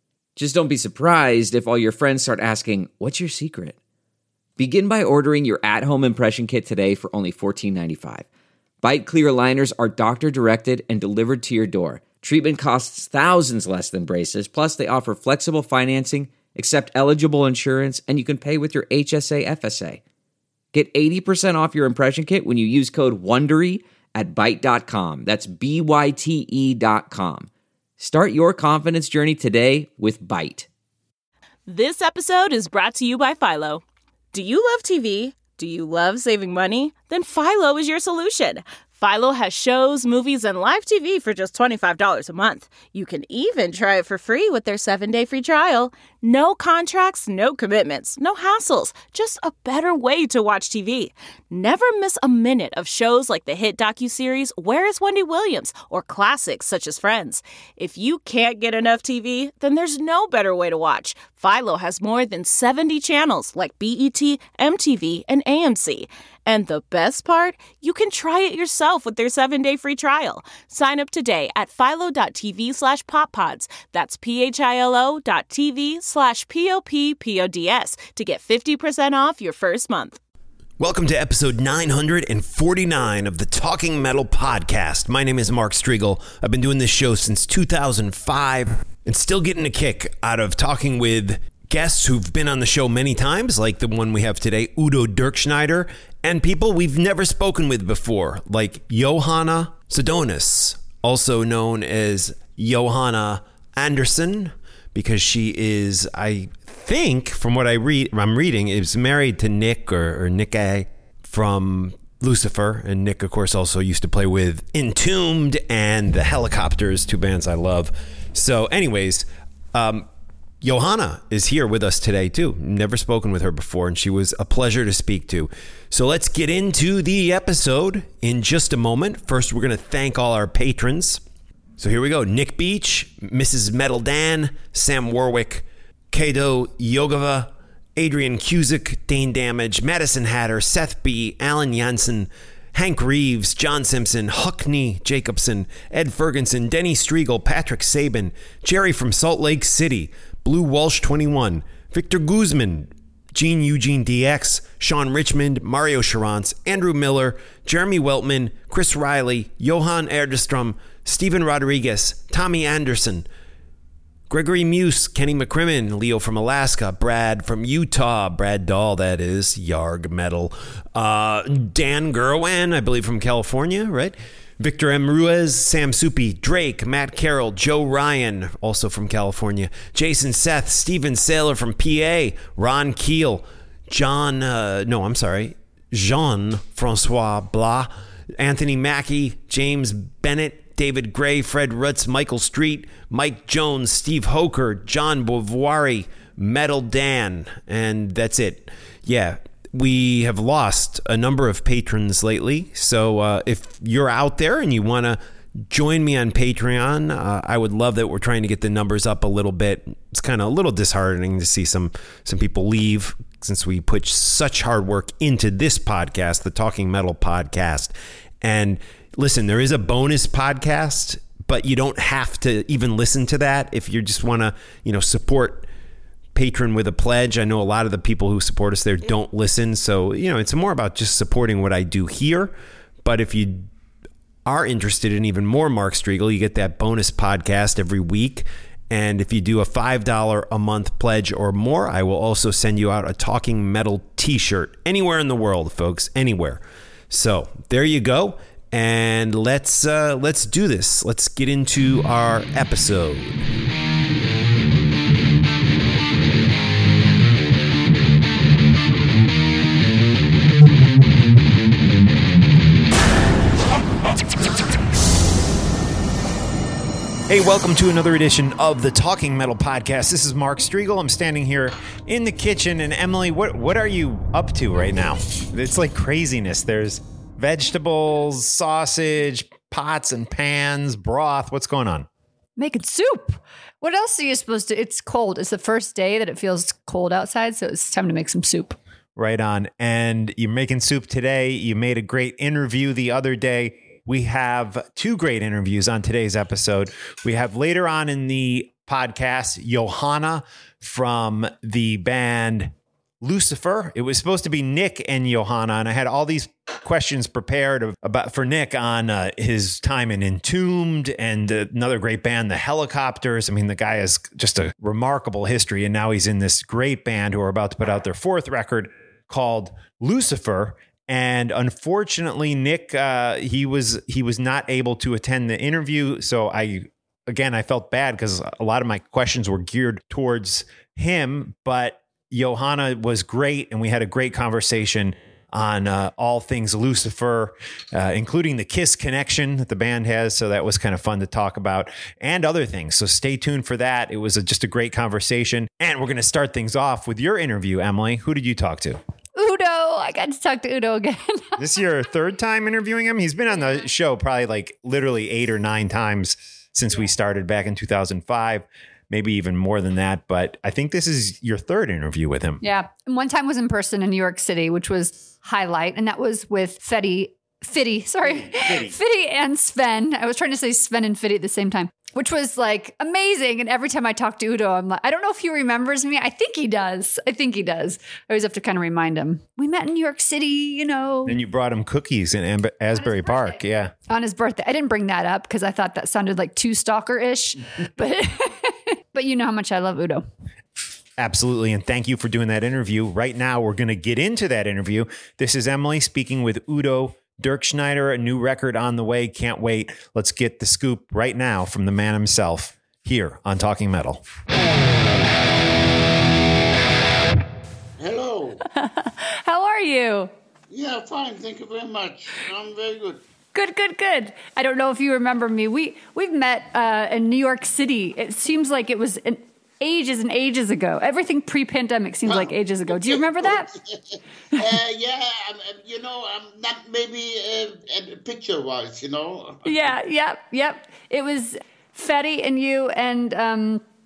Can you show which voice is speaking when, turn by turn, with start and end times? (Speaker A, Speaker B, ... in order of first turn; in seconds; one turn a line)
Speaker A: 0.3-3.8
Speaker A: 4.6-8.2
Speaker A: 8.8-20.0
Speaker A: 20.7-30.7
Speaker B: 31.6-80.2
Speaker C: 80.8-120.1
Speaker C: 120.6-131.2
Speaker C: 131.8-163.2
Speaker C: 164.3-225.7
Speaker C: 226.3-233.7
Speaker C: 234.4-253.4
Speaker C: 267.3-282.1
Speaker D: 282.6-288.8
Speaker C: 289.1-349.0
Speaker D: 349.4-351.6
Speaker C: 351.6-362.6
Speaker D: 362.6-381.4
Speaker C: 368.2-369.0
Speaker C: 381.2-383.9
Speaker D: 383.1-383.5
Speaker D: 384.1-390.2
Speaker C: 391.2-404.2
Speaker E: 408.0-408.6
Speaker D: 408.7-410.3
Speaker E: 410.7-413.2
Speaker D: 413.5-423.7
Speaker E: 422.2-429.9
Speaker D: 429.6-433.8